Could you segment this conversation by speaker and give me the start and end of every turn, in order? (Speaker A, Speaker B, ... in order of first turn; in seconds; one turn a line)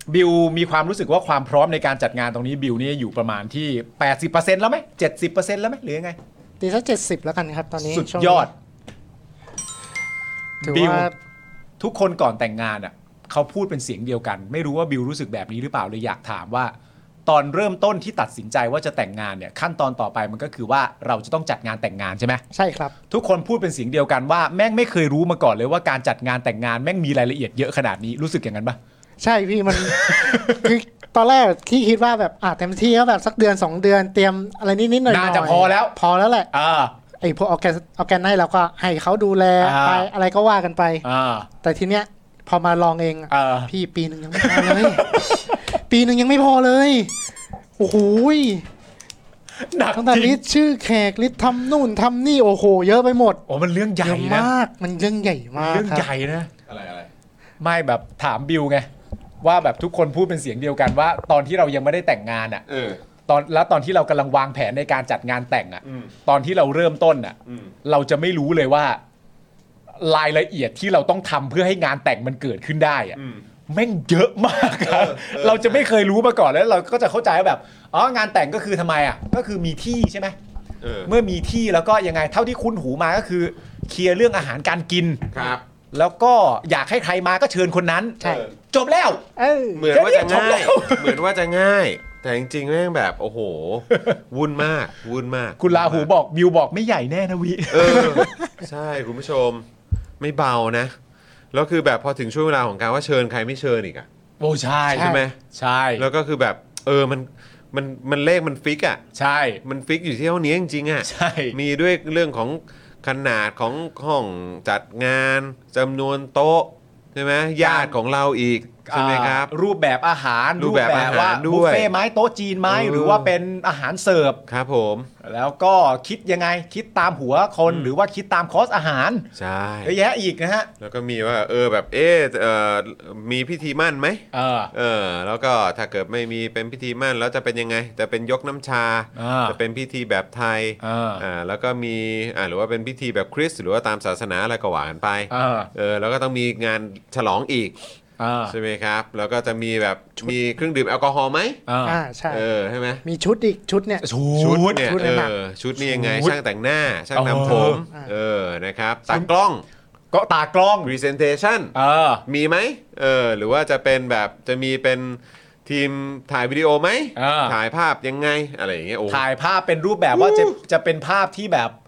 Speaker A: 0.1-6.2
Speaker B: 6.6-8.5
Speaker A: 7.8-8.5
Speaker A: 10.6-11.1
Speaker B: 10.6-11.1
Speaker A: 11.8-16.7
Speaker A: 17.3-22.4
Speaker B: 22.5-22.9
Speaker A: 23.1-28.8
Speaker B: 29.2-36.5
Speaker A: 29.7-30.7
Speaker A: 35.1-36.0
Speaker A: 36.5-36.9
Speaker B: 37.2-47.1
Speaker A: 39.6-40.1
Speaker A: 41.0-41.5
Speaker A: 43.3-43.7
Speaker A: 44.3-45.6
Speaker B: 47.8-48.7
Speaker A: 49.6-50.4
Speaker B: 49.9-53.4
Speaker A: 53.5-54.5
Speaker B: 54.0-56.1
Speaker A: 55.6-56.5
Speaker C: 56.7-57.1
Speaker A: 57.6-58.9
Speaker A: 59.4-62.6
Speaker C: 62.7-63.0
Speaker A: 63.3-69.0
Speaker A: 70.0-80.3
Speaker C: 73.2-73.4
Speaker C: 74.6-75.9
Speaker C: 80.8-81.1
Speaker A: 81.1-85.3
Speaker C: 85.3-85.6
Speaker A: 85.9-89.2
Speaker B: 88.2-88.5
Speaker C: 88.2-88.5
Speaker B: 89.4-89.9
Speaker C: 89.7-96.1
Speaker A: 89.9-91.2
Speaker A: 93.9-94.2
Speaker A: 95.6-98.3
Speaker C: 97.7-99.7
Speaker C: 100.2-101.0
Speaker C: 101.5-104.1
Speaker A: 104.4-106.1
Speaker C: 104.9-105.4
Speaker C: 106.0-109.0
Speaker A: 109.2-109.6
Speaker C: 109.6-119.5
Speaker A: 111.0-111.6
Speaker A: 117.6-117.9
Speaker A: 118.9-124.4
Speaker C: 120.6-121.9
Speaker C: 122.7-123.3
Speaker C: 124.5-125.1
Speaker A: 125.2-129.3
Speaker C: 127.7-127.9
Speaker C: 129.3-130.0
Speaker A: 129.8-130.7
Speaker C: 130.8-147.8
Speaker A: 134.3-134.7
Speaker A: 139.2-139.6
Speaker A: 140.8-141.2
Speaker A: 145.3-145.7
Speaker A: 148.2-148.6
Speaker C: 148.5-151.6
Speaker A: 151.7-152.0
Speaker B: 151.8-152.5
Speaker C: 152.3-153.0
Speaker B: 153.1-154.1
Speaker A: 154.0-155.2
Speaker C: 154.4-159.6
Speaker B: 154.7-155.3
Speaker A: 155.8-156.4
Speaker A: 157.1-157.8
Speaker A: 160.1-160.9
Speaker C: 160.8-161.7
Speaker A: 161.7-162.2
Speaker C: 162.3-169.2
Speaker A: 167.2-167.6
Speaker A: 169.1-171.8
Speaker C: 170.1-170.6